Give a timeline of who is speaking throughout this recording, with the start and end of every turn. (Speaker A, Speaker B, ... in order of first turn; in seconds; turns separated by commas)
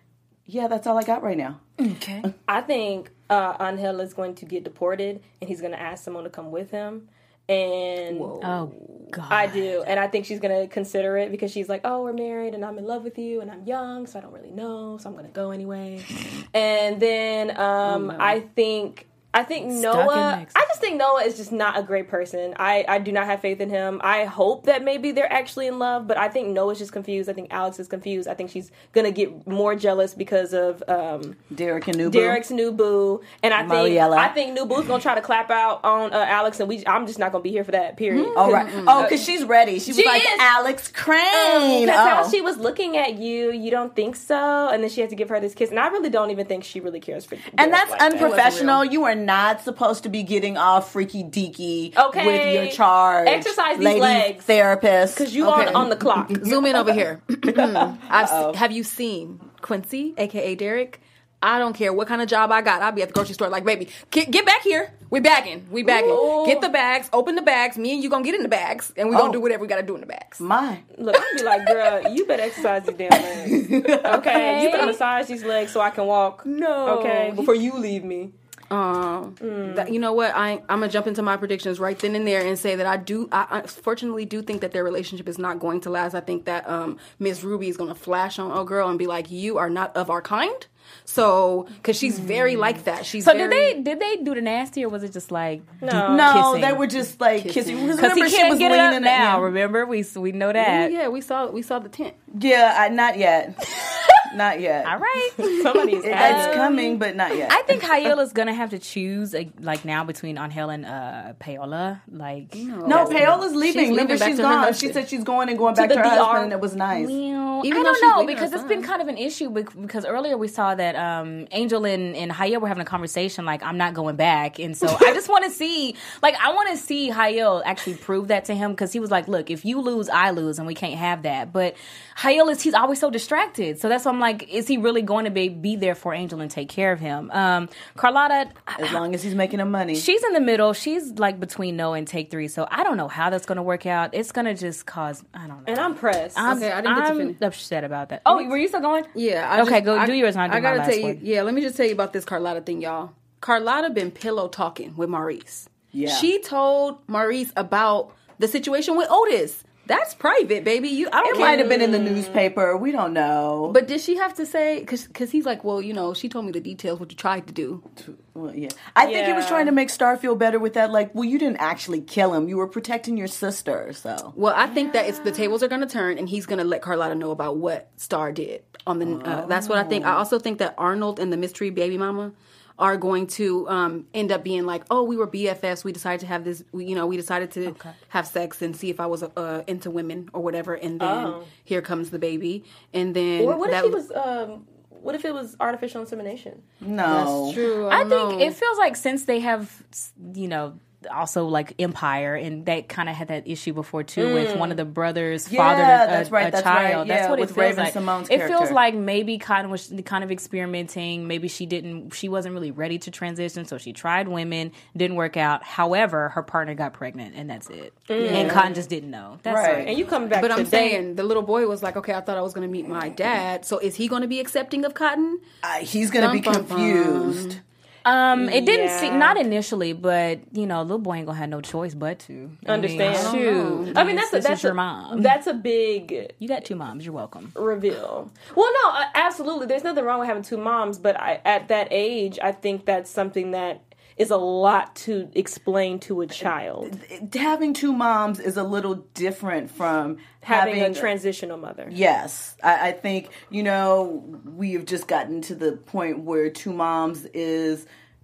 Speaker A: 0.5-1.6, Speaker B: 1.8-2.3, Speaker C: 2.5-8.4, Speaker D: 8.1-9.1, Speaker B: 8.4-9.8, Speaker C: 9.3-31.4, Speaker D: 17.8-18.4, Speaker B: 19.7-20.6, Speaker A: 31.5-32.4, Speaker C: 32.0-39.2, Speaker A: 33.6-34.3, Speaker D: 38.1-39.2, Speaker A: 38.4-42.4, Speaker C: 39.9-40.5, Speaker C: 41.3-48.4, Speaker A: 47.5-58.6, Speaker D: 48.1-48.8, Speaker C: 52.0-54.5, Speaker C: 55.1-56.5, Speaker D: 55.4-70.4, Speaker C: 65.8-66.7, Speaker A: 69.1-69.4, Speaker A: 70.4-70.8, Speaker C: 71.0-78.3, Speaker D: 71.2-71.9, Speaker A: 73.3-74.5, Speaker B: 74.0-75.0, Speaker D: 74.6-74.9, Speaker D: 76.5-77.7, Speaker D: 78.7-93.7, Speaker C: 79.4-79.9, Speaker B: 92.1-92.7, Speaker B: 93.2-96.8, Speaker C: 95.8-96.4, Speaker A: 95.9-99.5, Speaker D: 97.4-98.0, Speaker B: 98.0-100.9, Speaker D: 100.6-102.2, Speaker A: 102.3-105.0, Speaker B: 104.8-106.6, Speaker C: 105.4-106.9, Speaker A: 106.0-107.8, Speaker B: 107.5-112.7, Speaker D: 112.5-115.0, Speaker A: 112.8-117.1, Speaker C: 115.7-116.5, Speaker B: 116.9-139.0, Speaker D: 117.6-118.9, Speaker A: 138.8-140.1, Speaker B: 139.9-151.2, Speaker C: 145.7-146.6, Speaker D: 146.5-147.4, Speaker D: 148.3-148.5, Speaker D: 149.1-161.8, Speaker A: 155.9-156.3, Speaker C: 161.2-162.4, Speaker A: 161.2-163.8, Speaker D: 163.7-167.8, Speaker A: 168.0-174.3, Speaker C: 169.0-169.7, Speaker D: 174.3-194.0, Speaker A: 179.0-180.3, Speaker B: 187.7-187.9, Speaker C: 191.0-191.5, Speaker C: 193.4-196.6, Speaker A: 196.8-197.6, Speaker D: 197.1-198.6, Speaker B: 197.9-219.9, Speaker C: 204.2-204.8, Speaker A: 205.4-208.8, Speaker C: 218.1-218.8, Speaker A: 218.3-218.7, Speaker A: 219.4-219.9, Speaker C: 219.8-221.0, Speaker D: 220.3-225.4, Speaker A: 225.6-227.6, Speaker D: 226.2-227.6, Speaker B: 228.1-235.3, Speaker C: 228.3-229.4, Speaker C: 232.7-233.4, Speaker D: 233.0-234.0, Speaker C: 233.9-236.3, Speaker B: 236.4-237.5, Speaker C: 237.6-246.9, Speaker A: 246.4-251.1, Speaker C: 250.4-252.0, Speaker A: 251.9-257.9